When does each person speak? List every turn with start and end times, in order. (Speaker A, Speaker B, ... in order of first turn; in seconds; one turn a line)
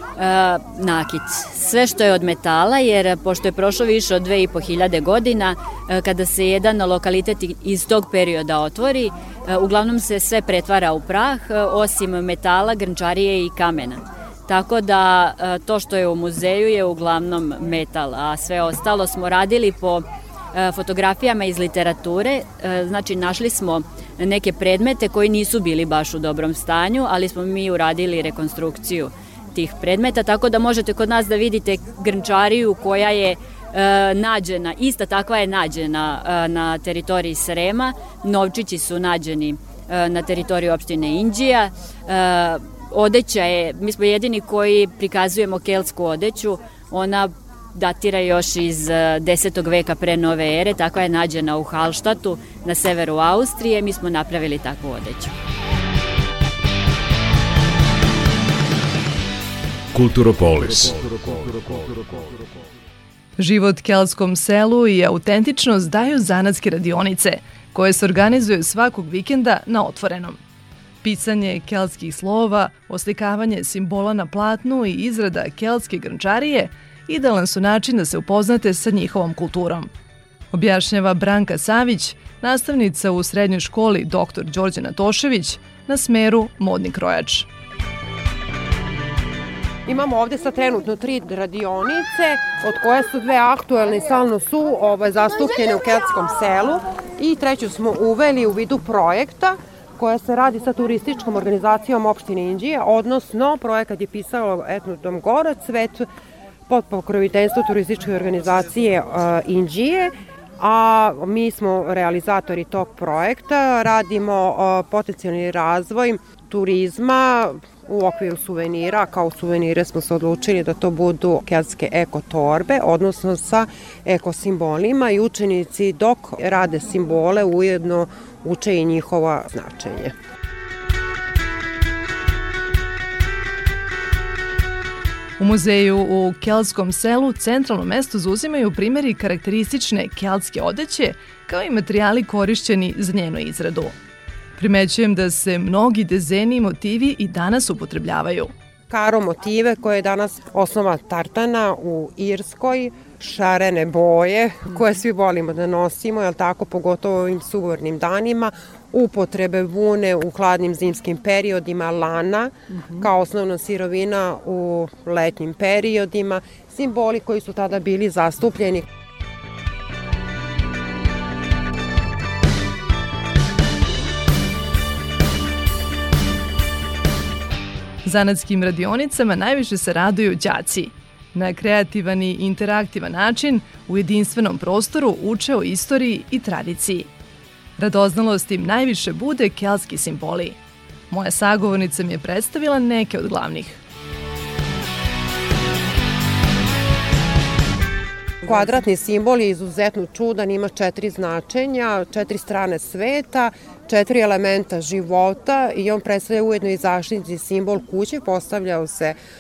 Speaker A: 0.2-55.3
Speaker B: 59.9-62.3
Speaker C: 63.4-70.4
Speaker C: 71.0-79.9
Speaker C: 80.5-87.5
Speaker D: 89.9-106.1
Speaker D: 106.7-130.1
Speaker C: 135.4-143.9
Speaker C: 144.6-148.5
Speaker D: 148.9-168.8
Speaker C: 178.0-187.1
Speaker C: 187.8-190.6
Speaker C: 191.1-193.8
Speaker D: 198.4-209.2